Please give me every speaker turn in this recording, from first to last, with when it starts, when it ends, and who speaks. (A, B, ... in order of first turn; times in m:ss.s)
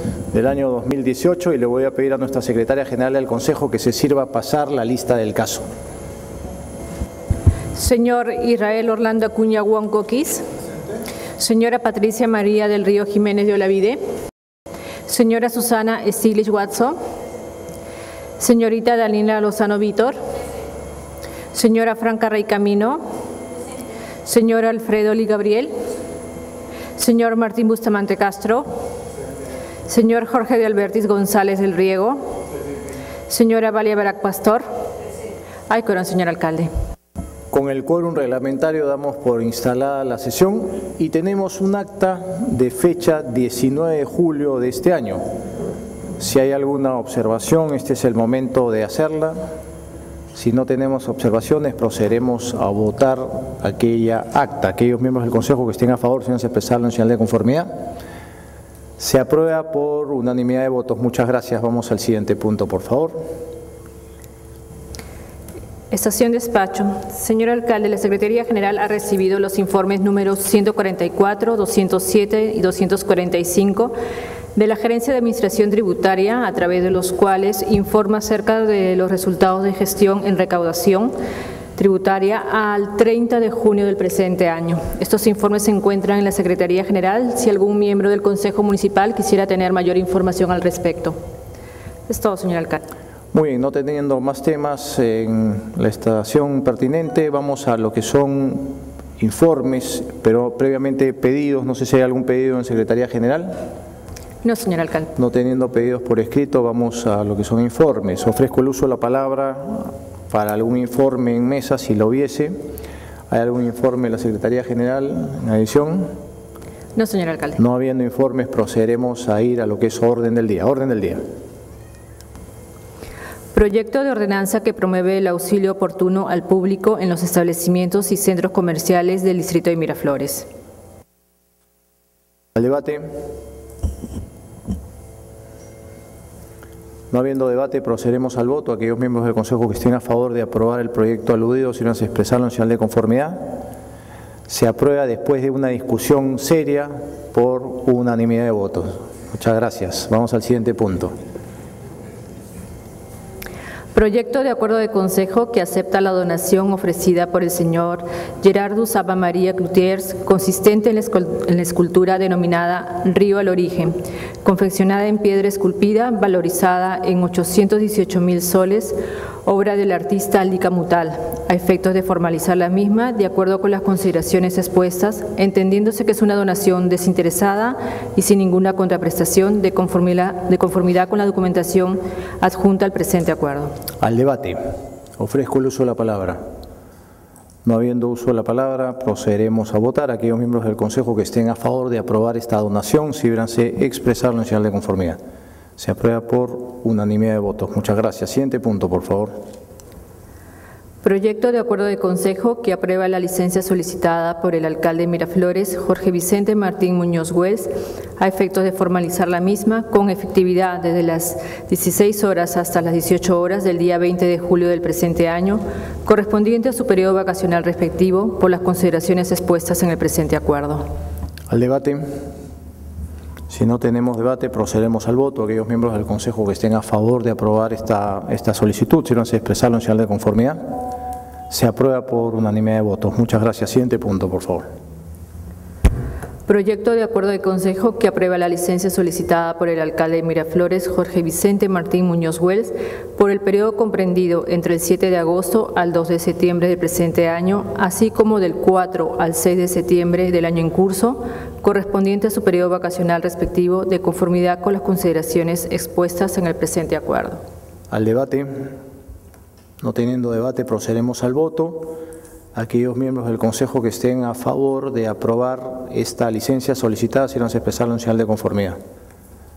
0:00.3-0:05.6 A
0:07.7-0:10.4 B
0:11.4-0:14.0 B
0:15.1-0:17.0 B
0:18.4-0:20.2 B
0:21.5-0:23.0 B
0:24.2-0:25.7 B
0:27.0-0:28.7 B
0:29.9-0:32.2 B
0:33.3-0:34.6 B
0:35.7-0:36.7 B
0:37.5-0:45.2 A
0:46.2-0:49.5 A
0:50.3-0:57.7 A
0:59.0-1:03.2 A
1:05.9-1:13.9 B
1:14.5-1:21.1 B
1:21.8-1:31.2 B
1:32.1-1:32.8 B
1:33.3-1:43.5 A
1:44.4-1:45.1 B
1:45.2-1:52.6 A
1:53.3-1:56.1 A
1:57.0-1:57.6 B
1:57.6-2:01.2 A
2:03.5-2:10.5 B
2:12.5-2:13.1 A
2:17.1-2:23.5 A
2:24.5-2:31.1 A
2:33.9-3:03.7 B
3:04.0-3:04.6 A
3:05.2-3:06.4 A
3:07.6-3:15.2 A
3:15.8-3:19.3 A
3:21.0-3:40.9 B
3:41.5-3:42.0 A
3:43.5-3:50.6 A
3:51.5-3:54.6 A
3:56.5-4:17.4 B
4:17.9-4:18.7 A
4:19.8-4:22.0 A
4:22.5-4:28.8 A